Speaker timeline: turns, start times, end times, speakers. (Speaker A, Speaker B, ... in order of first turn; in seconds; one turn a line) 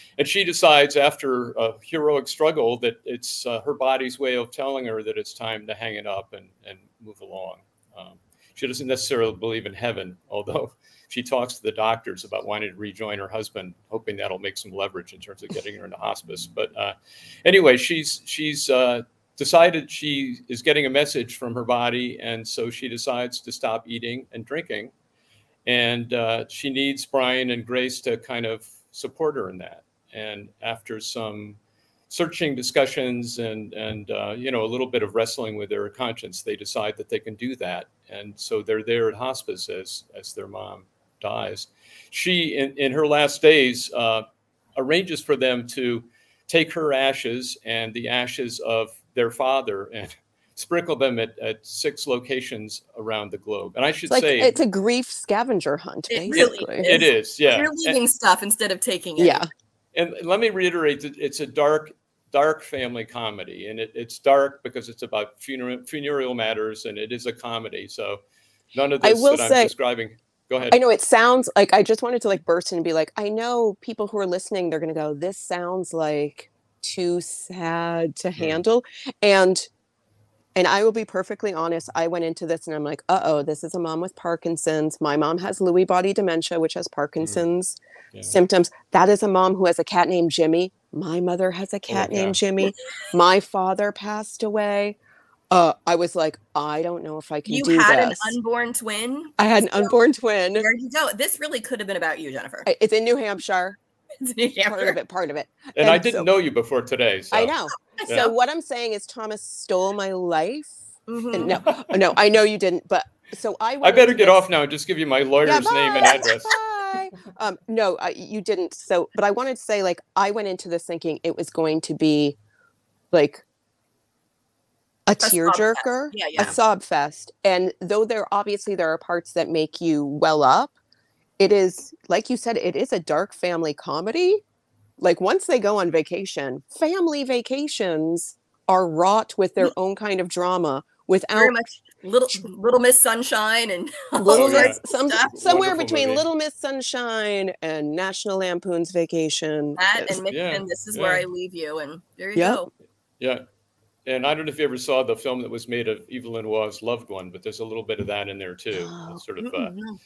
Speaker A: 0.2-24.9
Speaker A: 25.6-31.6
Speaker A: 32.1-54.6
Speaker B: 54.1-57.0
Speaker C: 56.1-59.4
Speaker A: 56.3-58.0
Speaker B: 59.2-59.5
Speaker A: 59.9-68.2
Speaker A: 68.7-70.8
Speaker B: 69.0-69.7
Speaker B: 70.7-79.7
Speaker B: 80.6-87.8
Speaker B: 88.3-95.0
Speaker A: 91.9-92.4
Speaker B: 95.5-98.4
Speaker C: 97.5-100.0
Speaker B: 99.4-100.7
Speaker C: 100.6-102.7
Speaker B: 102.7-103.8
Speaker C: 104.2-105.0
Speaker B: 104.7-106.3
Speaker A: 105.8-108.3
Speaker B: 107.3-114.4
Speaker C: 111.1-111.6
Speaker A: 113.8-116.6
Speaker B: 115.4-122.4
Speaker B: 123.1-123.4
Speaker B: 125.1-130.7
Speaker C: 125.2-126.6
Speaker B: 131.4-134.4
Speaker B: 135.0-141.5
Speaker C: 141.4-145.4
Speaker B: 144.2-150.2
Speaker A: 144.4-144.8
Speaker A: 145.3-146.3
Speaker C: 149.8-152.7
Speaker A: 150.3-151.3
Speaker B: 152.4-152.6
Speaker A: 153.2-153.4
Speaker A: 154.1-159.8
Speaker B: 158.8-159.2
Speaker C: 159.4-160.0